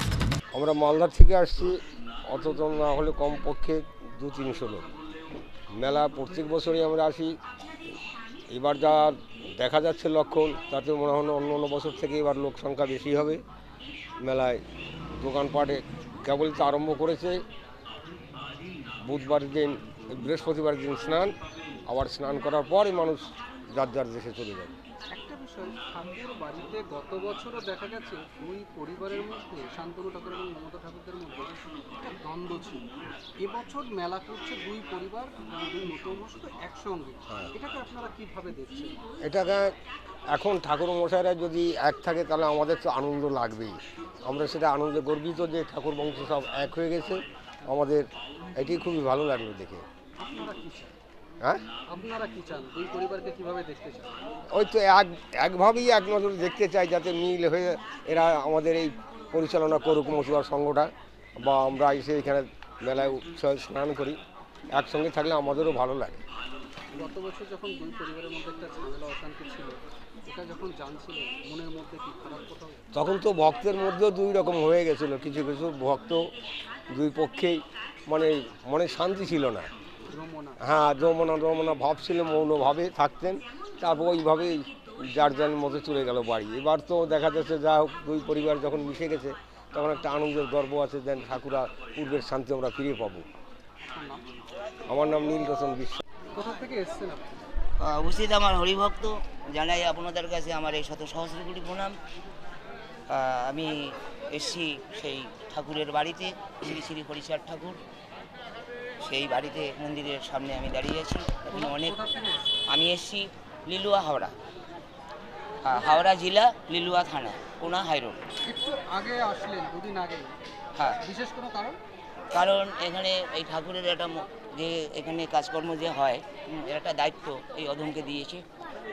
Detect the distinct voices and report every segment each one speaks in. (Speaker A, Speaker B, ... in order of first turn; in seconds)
Speaker A: 0.5-1.7, 2.3-4.8, 5.8-7.3, 8.5-13.4, 14.2-14.6, 15.2-17.4, 19.0-21.3, 21.9-24.7, 39.2-39.7, 40.3-49.8, 54.5-64.2, 64.7-66.2, 72.9-76.3, 76.9-79.7, 80.6-93.2, 94.9-96.0
Speaker B: 25.1-32.8, 33.4-39.0, 50.2-50.9, 51.9-54.1, 66.9-72.8, 80.1-80.6, 93.8-94.2, 96.3-97.5, 111.5-112.6, 118.5-120.4, 121.0-121.8
Speaker C: 97.8-101.9, 103.1-107.8, 109.0-112.0, 112.7-114.3, 115.6-118.2, 122.3-128.4